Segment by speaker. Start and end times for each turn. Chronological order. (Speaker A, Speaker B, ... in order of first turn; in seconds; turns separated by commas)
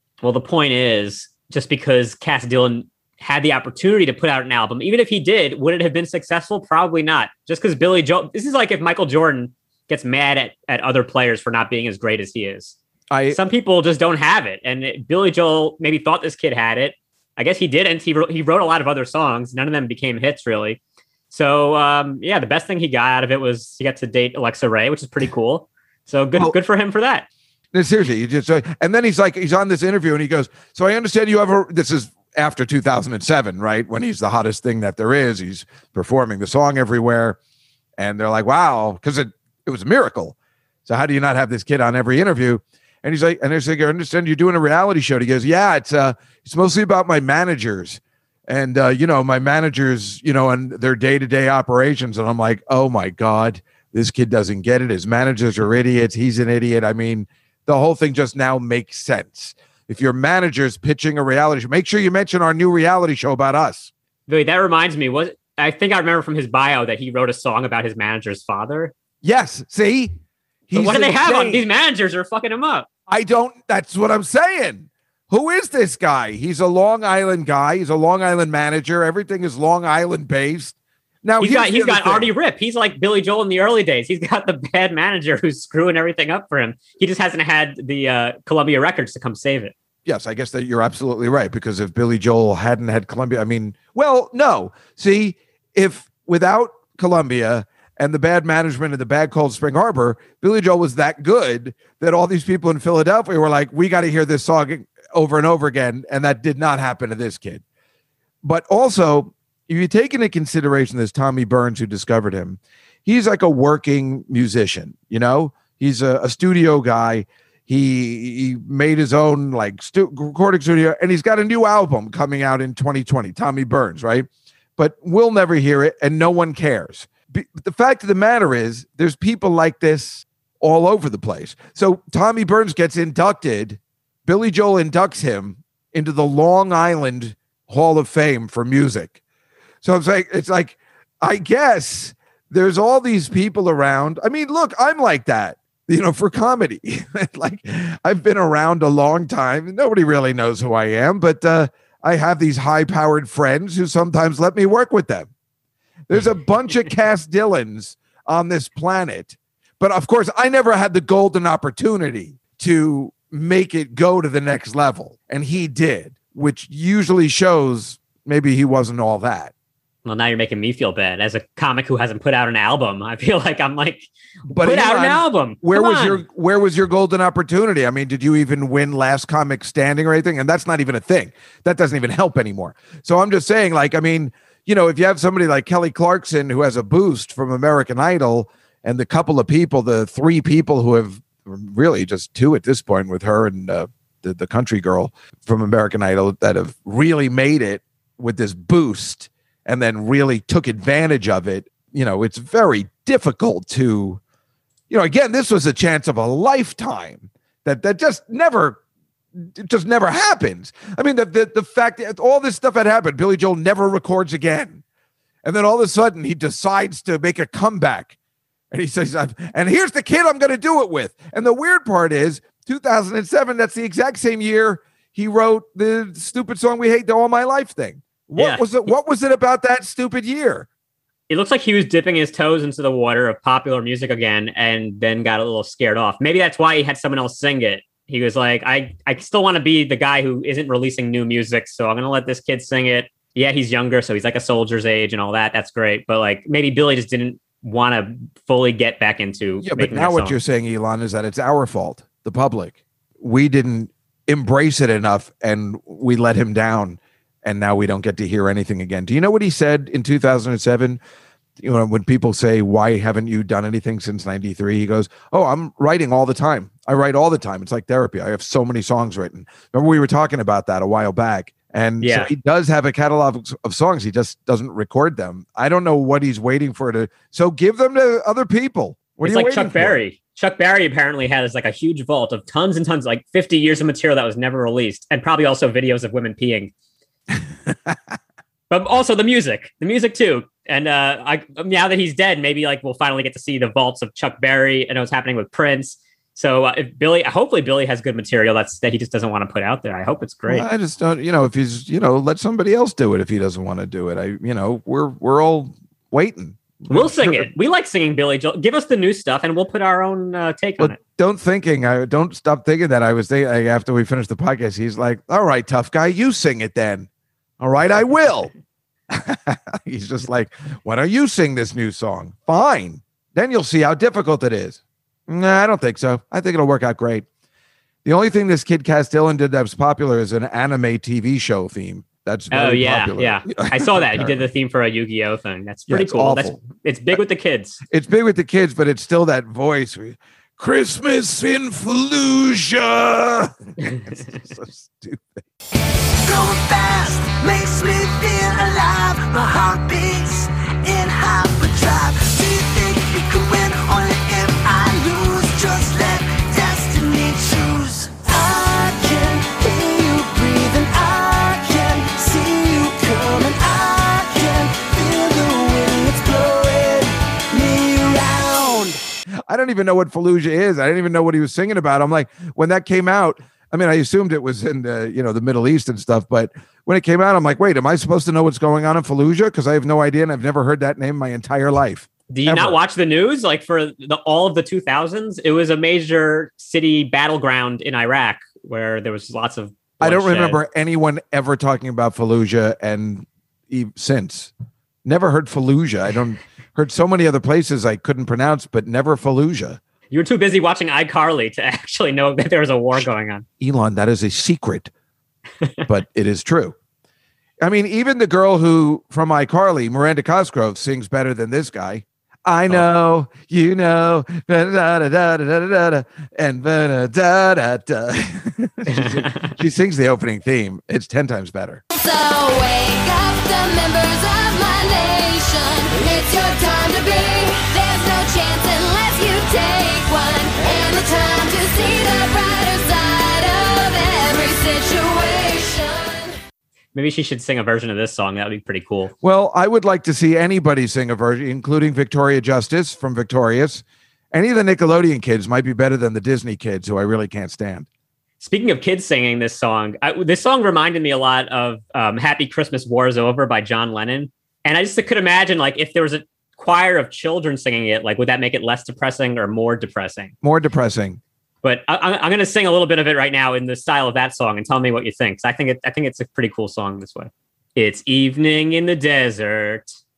Speaker A: 0.2-12.7, Speaker B: 13.1-13.4, Speaker A: 13.3-20.8, Speaker A: 21.3-27.3, Speaker B: 27.7-37.4, Speaker B: 38.0-40.3, Speaker B: 40.9-63.9, Speaker A: 64.3-68.9, Speaker B: 69.2-70.1, Speaker B: 70.7-71.6, Speaker A: 70.7-72.9, Speaker B: 73.1-82.3, Speaker A: 81.4-89.7, Speaker B: 90.0-107.6, Speaker B: 108.4-139.2, Speaker B: 139.8-155.3, Speaker B: 156.1-169.5, Speaker A: 170.0-176.2, Speaker B: 174.5-204.2, Speaker B: 204.9-208.8, Speaker B: 209.3-214.8, Speaker B: 215.4-218.2, Speaker B: 218.7-230.7, Speaker A: 228.3-228.7, Speaker A: 231.3-250.3, Speaker B: 249.6-261.0, Speaker B: 261.6-280.0, Speaker A: 272.0-272.3, Speaker A: 279.2-286.7, Speaker B: 287.7-287.9, Speaker A: 288.7-300.7, Speaker B: 300.5-307.5, Speaker A: 306.9-310.9, Speaker B: 310.8-317.1, Speaker B: 317.6-318.5, Speaker B: 319.1-327.2, Speaker B: 328.0-334.5, Speaker A: 332.5-337.8, Speaker B: 335.9-337.1, Speaker B: 337.9-345.4, Speaker C: 346.2-369.0, Speaker B: 369.5-382.8, Speaker A: 382.3-390.6, Speaker B: 390.0-394.5, Speaker B: 395.0-399.8, Speaker A: 400.1-403.4, Speaker B: 403.6-404.9, Speaker B: 405.9-406.8, Speaker B: 407.6-421.8, Speaker A: 418.9-419.5, Speaker D: 421.9-436.4, Speaker A: 436.9-439.1, Speaker B: 439.2-447.9, Speaker A: 448.4-460.3, Speaker B: 460.4-461.2, Speaker A: 461.6-469.9